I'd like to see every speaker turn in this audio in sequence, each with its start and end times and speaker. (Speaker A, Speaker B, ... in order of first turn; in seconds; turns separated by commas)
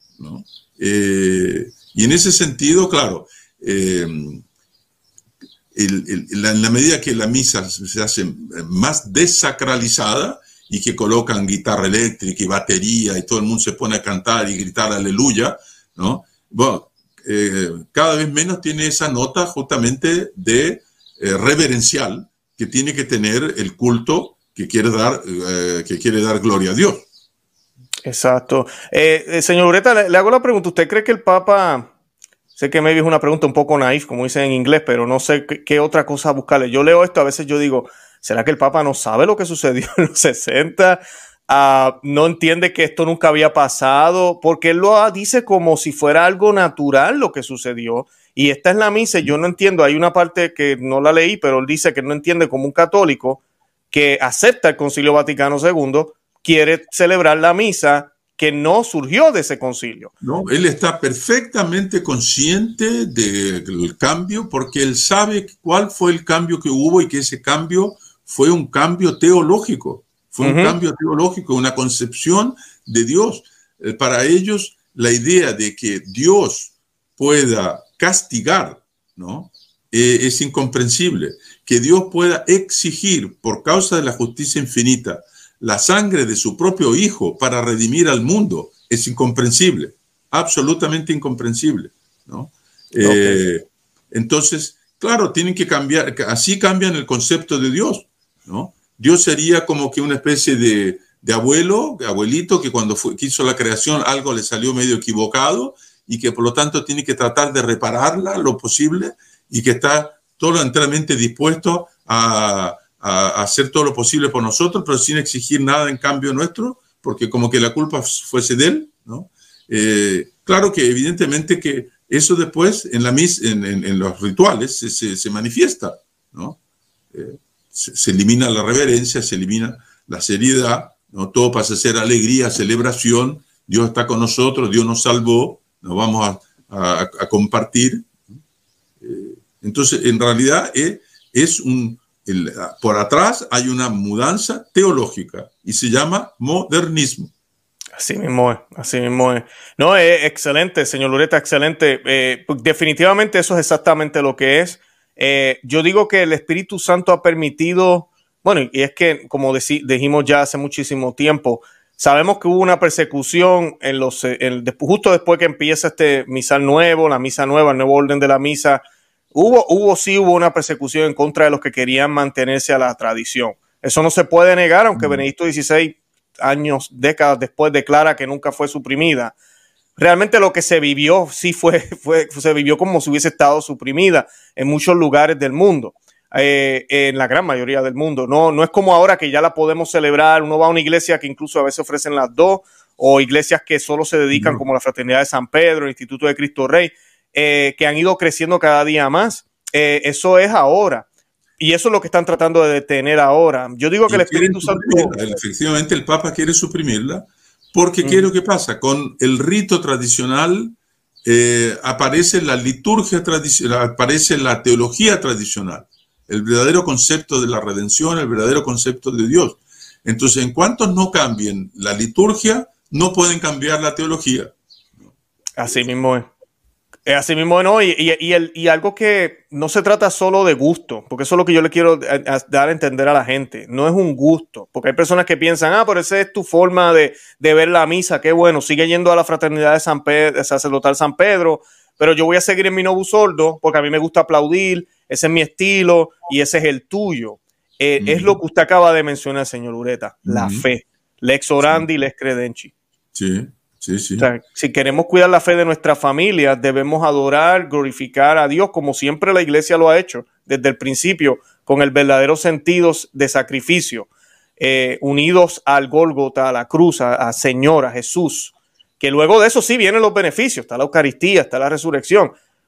Speaker A: 0.2-4.4, Speaker A: 5.7-27.0, Speaker B: 28.0-31.9, Speaker B: 32.5-60.1, Speaker A: 60.2-126.6, Speaker B: 70.4-70.8, Speaker B: 93.0-93.4, Speaker A: 127.1-138.1, Speaker A: 139.0-147.3, Speaker B: 148.0-179.3, Speaker A: 174.9-175.2, Speaker B: 180.0-201.1, Speaker A: 194.3-194.6, Speaker B: 201.6-205.2, Speaker A: 204.1-225.1, Speaker B: 208.0-208.3, Speaker B: 225.6-226.3, Speaker B: 227.1-252.7, Speaker A: 248.0-248.4, Speaker A: 250.2-250.6, Speaker A: 253.1-254.3, Speaker B: 254.2-272.3